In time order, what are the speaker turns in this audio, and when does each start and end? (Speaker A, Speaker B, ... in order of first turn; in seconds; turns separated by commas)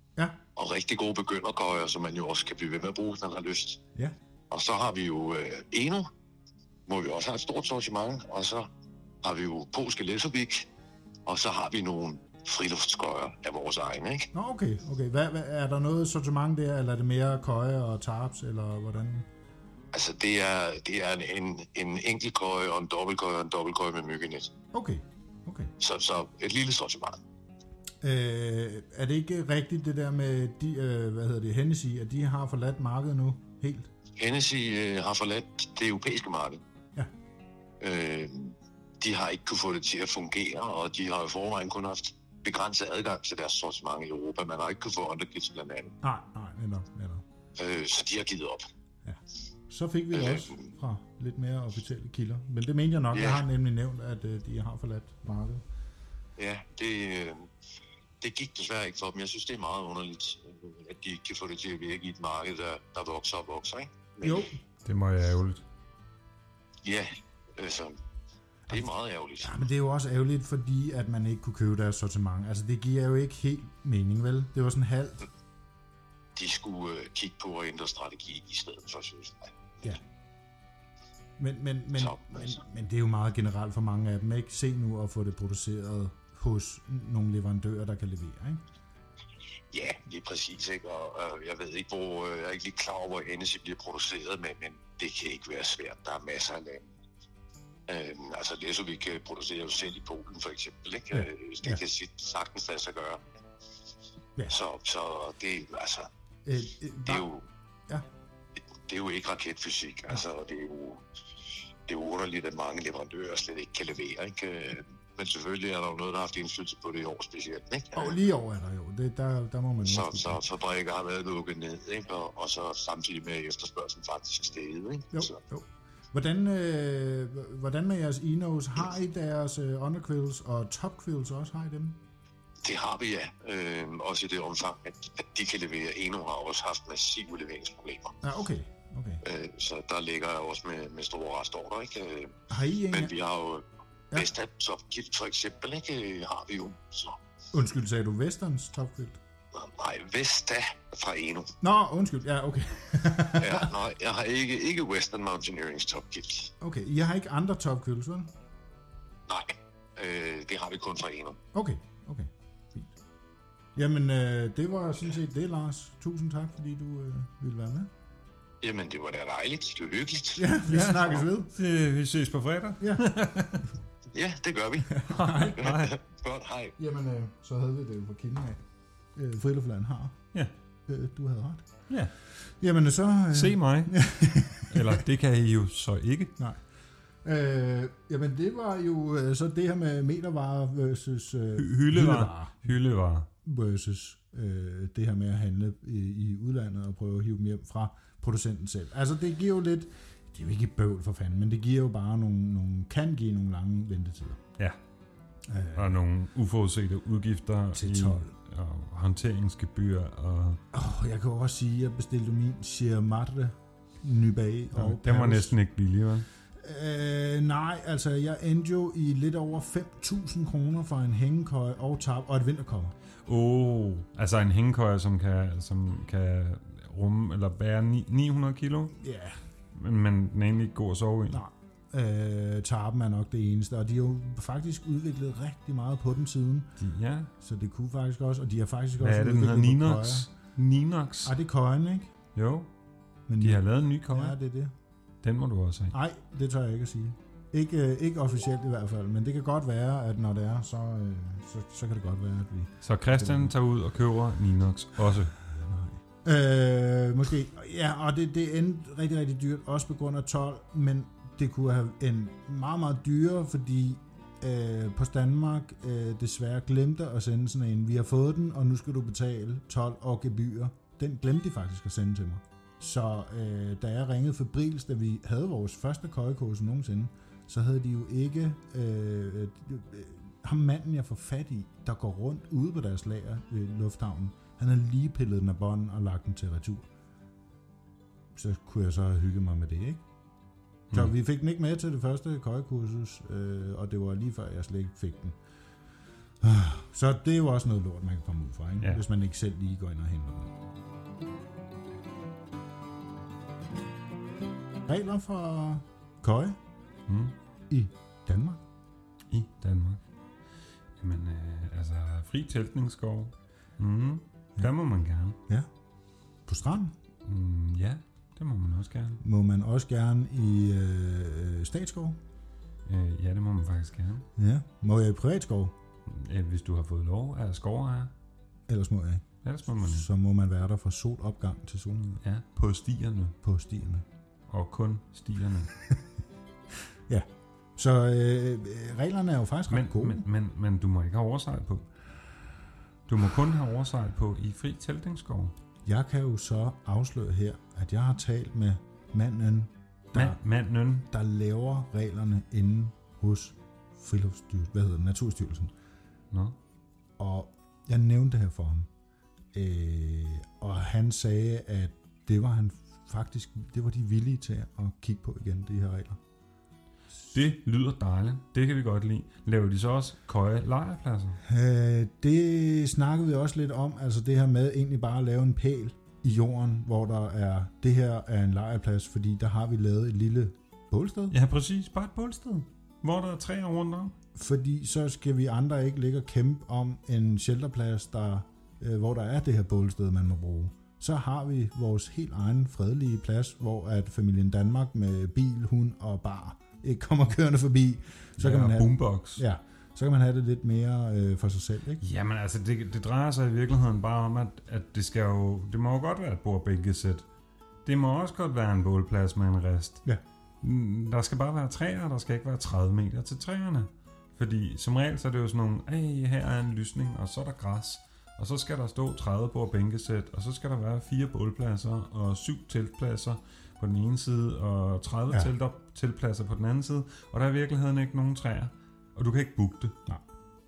Speaker A: 0.6-3.8, Speaker A: 4.5-6.1, Speaker A: 6.9-8.7, Speaker A: 9.2-10.7, Speaker A: 11.3-14.3, Speaker B: 14.3-19.3, Speaker A: 19.9-24.5, Speaker B: 24.7-25.7, Speaker A: 25.8-27.2, Speaker B: 28.0-33.9, Speaker A: 34.2-36.6, Speaker A: 37.8-46.0, Speaker B: 46.0-47.2, Speaker A: 47.6-48.7, Speaker B: 49.0-55.6, Speaker A: 50.1-50.7, Speaker A: 53.1-53.4, Speaker A: 56.4-57.5, Speaker A: 58.2-64.5, Speaker B: 64.2-64.6, Speaker C: 64.8-65.6, Speaker A: 66.8-68.0, Speaker A: 68.7-69.6, Speaker B: 69.4-75.3, Speaker A: 76.4-79.5, Speaker B: 81.4-88.6, Speaker A: 82.0-82.6, Speaker A: 89.7-96.9, Speaker A: 97.9-103.2, Speaker B: 101.1-101.8, Speaker A: 104.5-106.1, Speaker B: 106.5-107.3, Speaker A: 107.0-107.5, Speaker A: 108.8-111.0, Speaker A: 111.9-118.2, Speaker B: 118.0-120.4, Speaker A: 119.8-125.4, Speaker B: 125.1-132.0, Speaker A: 132.6-138.2, Speaker B: 138.2-139.2, Speaker A: 139.2-147.2, Speaker B: 142.5-143.1, Speaker B: 147.5-149.2, Speaker A: 149.5-151.6, Speaker B: 151.6-153.7, Speaker A: 153.4-156.5, Speaker B: 156.6-158.3, Speaker A: 159.3-161.4, Speaker B: 161.5-162.9, Speaker B: 163.7-167.9, Speaker A: 168.6-170.5, Speaker B: 170.4-171.5, Speaker C: 170.7-173.7, Speaker B: 172.8-173.2, Speaker A: 174.1-175.0, Speaker B: 174.9-175.7, Speaker C: 175.0-176.0, Speaker A: 175.5-176.7, Speaker B: 176.8-178.6, Speaker B: 179.1-180.2, Speaker B: 180.9-181.7, Speaker B: 182.4-185.0, Speaker C: 183.3-184.0, Speaker C: 184.6-186.3, Speaker B: 187.2-192.7, Speaker C: 191.6-193.3, Speaker B: 193.4-204.4, Speaker B: 205.4-206.0, Speaker C: 205.7-210.6, Speaker B: 207.7-208.3, Speaker B: 210.7-215.6, Speaker C: 214.7-216.3, Speaker B: 216.6-222.9, Speaker C: 223.3-229.0, Speaker B: 229.0-229.4, Speaker C: 229.7-231.4, Speaker B: 231.3-236.7, Speaker C: 236.8-237.3, Speaker B: 237.4-240.3, Speaker C: 239.0-241.3, Speaker B: 241.3-242.1, Speaker C: 242.3-242.7, Speaker B: 243.3-244.7, Speaker C: 243.4-244.4, Speaker C: 245.2-245.9, Speaker B: 245.9-253.5, Speaker C: 252.8-255.3, Speaker B: 255.4-286.9, Speaker B: 288.3-290.0, Speaker B: 290.9-295.4, Speaker B: 296.4-300.6, Speaker B: 304.9-306.6, Speaker C: 307.1-307.3, Speaker B: 307.7-308.6, Speaker C: 309.3-310.0, Speaker C: 311.0-315.4, Speaker B: 316.4-316.9, Speaker C: 317.2-319.2, Speaker B: 319.2-322.2, Speaker C: 322.9-324.3, Speaker B: 324.4-325.7, Speaker C: 326.1-328.1, Speaker B: 328.7-329.2, Speaker C: 329.4-330.1, Speaker B: 329.8-332.2, Speaker C: 332.2-333.4, Speaker B: 333.4-334.1, Speaker C: 334.5-335.7, Speaker B: 337.1-340.2, Speaker C: 339.7-341.9, Speaker C: 343.1-345.5, Speaker B: 345.9-350.4, Speaker C: 350.1-351.1, Speaker B: 351.1-355.7, Speaker C: 356.3-356.6, Speaker B: 357.2-358.9, Speaker B: 359.5-366.2, Speaker C: 367.3-371.4, Speaker B: 371.4-381.4, Speaker C: 381.3-384.1, Speaker B: 384.4-402.0, Speaker C: 398.4-399.4, Speaker C: 402.0-407.2, Speaker C: 407.9-410.0, Speaker C: 410.6-430.0